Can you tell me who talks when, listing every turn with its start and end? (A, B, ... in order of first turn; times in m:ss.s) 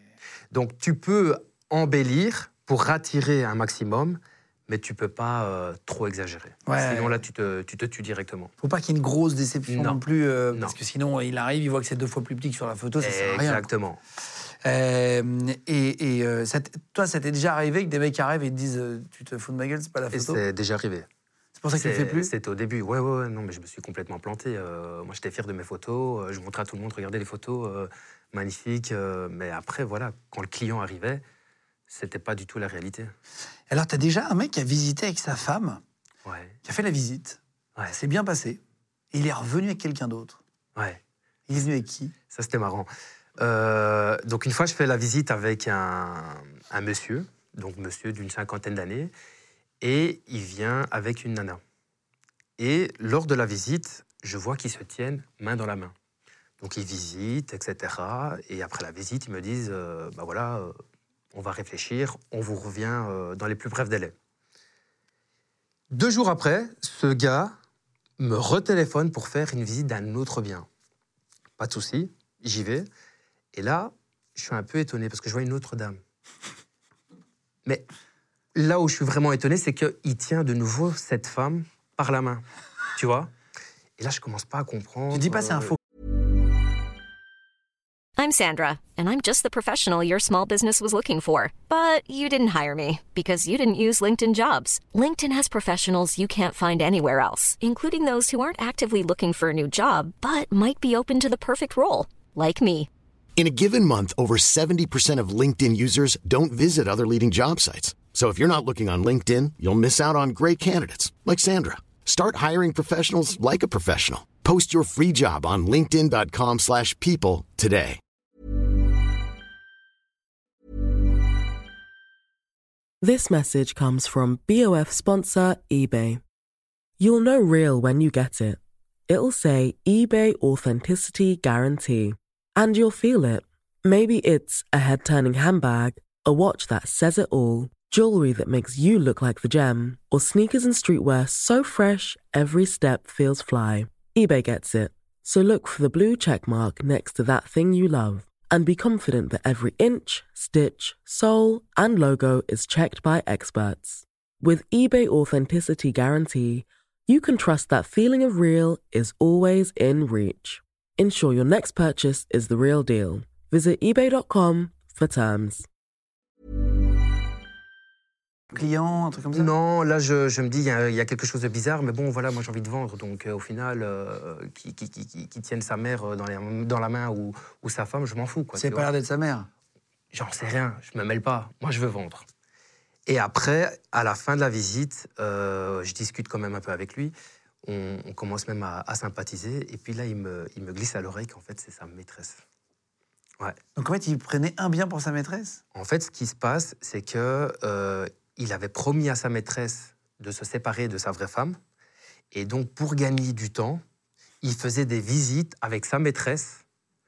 0:00.5-0:08.5 A
0:06.6-0:07.2 B
0:08.6-0:13.7 B
0:09.7-0:10.0 A
0:13.0-0:14.0 A
0:14.6-0:20.4 B
0:20.1-0:21.0 A
0:21.6-0:22.3 B
0:21.7-0:31.2 A
0:31.9-0:33.1 A
0:33.7-0:35.8 B
0:36.2-0:36.5 A
0:36.6-0:38.6 B
0:39.1-0:40.4 B
0:41.5-0:42.1 B
0:42.3-0:49.1 A
0:49.8-0:51.6 A
0:52.6-0:55.9 A
0:56.6-1:00.7 A
1:01.3-1:04.1 A
1:05.9-1:07.5 A
1:08.2-1:10.7 A
1:11.6-1:12.9 A
1:13.5-1:16.0 A
1:18.5-1:22.4 A
1:23.0-1:23.3 A
1:24.0-1:25.7 A
1:25.1-1:25.7 B
1:28.2-1:42.9 C
1:43.4-1:58.0 D
2:03.0-2:06.2 E
2:07.0-2:45.6 E
2:48.5-2:49.5 B
2:49.3-2:58.9 A
2:58.5-2:59.5 B
3:00.1-3:02.2 A
3:03.1-3:12.4 A
3:13.8-3:15.6 B
3:15.7-3:21.6 A
3:22.3-3:23.8 A
3:24.4-3:26.6 A